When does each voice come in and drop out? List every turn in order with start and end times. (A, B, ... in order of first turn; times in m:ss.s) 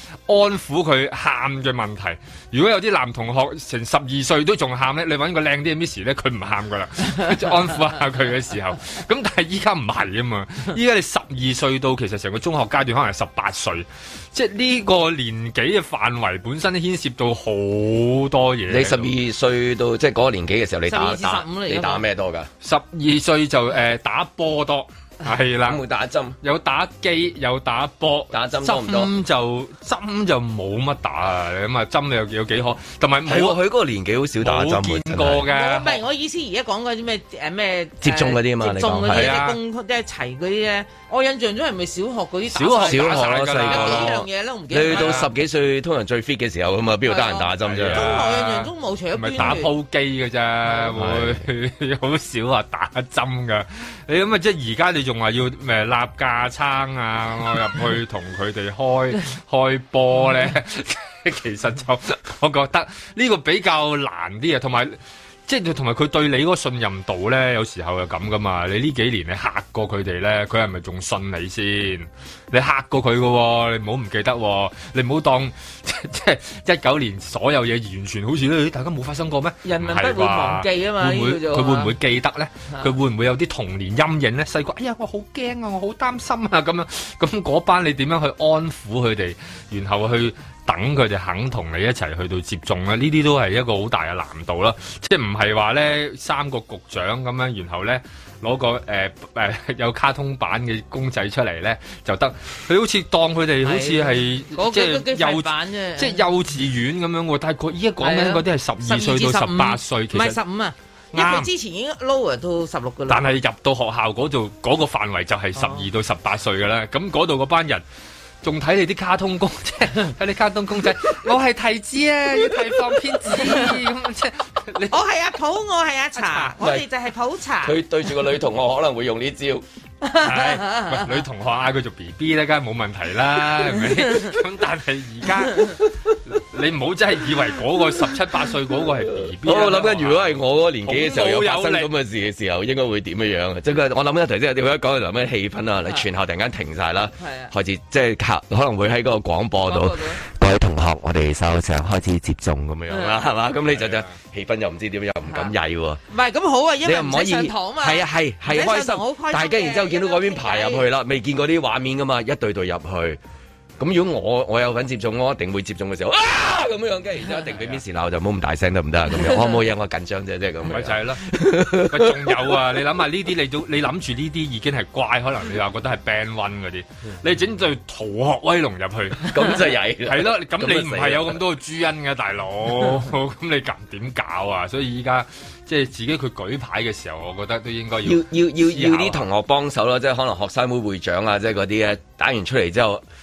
0:00.3-0:19.1 A
0:18.7-0:22.5 B
0:20.9-0:22.0 C
0:22.6-0:25.8 A
0:25.6-0:26.4 B
0:26.4-0:33.6 A
0:28.3-0:29.1 B
0:33.3-0:35.4 B
0:34.4-0:36.0 A
0:35.5-0:45.2 C
0:38.0-0:39.3 B
0:39.1-0:39.6 A
0:42.5-0:44.2 A
0:42.8-0:48.1 B
0:44.9-0:45.3 A
0:47.1-0:49.7 C
0:47.6-1:50.4 A
0:50.9-0:51.4 B
1:19.6-1:21.9 C
1:43.6-1:46.2 C
1:48.0-1:53.2 C
1:51.1-1:51.5 A
1:53.1-1:57.8 A
1:55.6-1:55.8 C
1:58.4-2:05.0 A
2:03.3-2:03.7 C
2:04.9-2:07.8 C
2:06.2-2:06.5 A
2:06.6-2:06.8 B
2:07.6-2:09.6 B
2:10.0-2:11.1 C
2:10.2-2:21.9 A
2:19.4-2:36.0 B
2:27.2-2:27.5 C
2:29.6-2:30.2 C
2:32.9-2:33.2 C
2:33.6-2:34.2 A
2:35.2-2:35.5 C
2:36.1-2:40.8 C
2:36.8-2:43.2 B
2:43.8-2:52.6 B
2:47.5-2:47.8 A
2:50.6-3:09.2 A
2:59.2-3:01.4 B
3:08.0-3:13.0 B